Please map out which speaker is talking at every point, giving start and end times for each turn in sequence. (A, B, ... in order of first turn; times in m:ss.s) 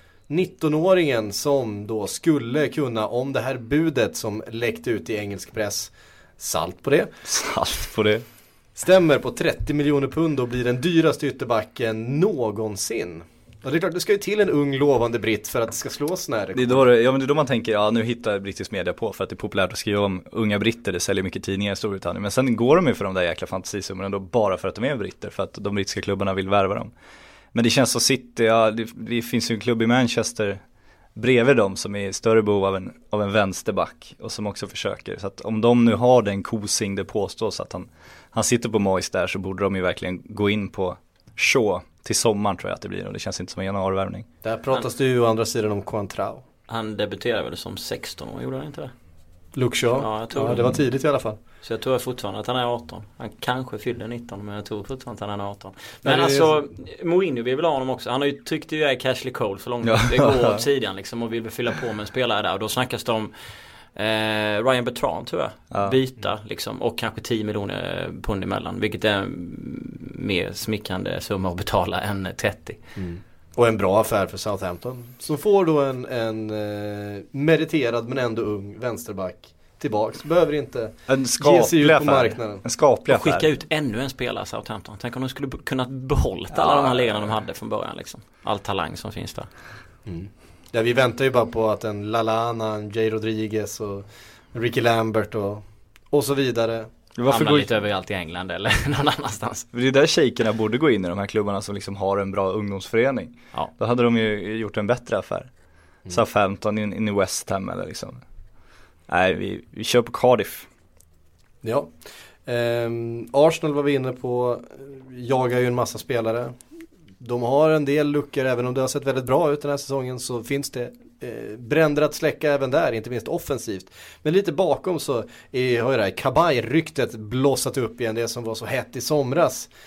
0:00.3-0:07.1 A
0:07.2-0:08.2 B
0:08.8-0:16.8 A
0:16.5-0:26.9 B
0:27.5-0:30.6 B
0:31.2-0:44.3 B
0:44.4-0:46.4 A
0:46.7-0:48.9 C
0:49.6-0:51.4 A
0:50.0-0:50.8 C
0:51.6-1:03.3 C
0:56.0-0:56.5 A
0:59.8-1:00.6 B
1:04.0-1:12.8 C
1:05.7-1:06.0 B
1:13.0-1:22.6 A
1:21.1-1:23.4 B
1:23.1-1:29.5 C
1:26.5-1:27.3 B
1:30.1-1:36.9 A
1:37.2-1:37.7 B
1:37.3-1:39.7 C
1:39.7-1:45.5 B
1:46.1-1:48.2 B
1:49.1-1:50.7 B
1:51.6-1:51.9 A
1:52.5-1:56.6 A
1:57.2-2:09.7 A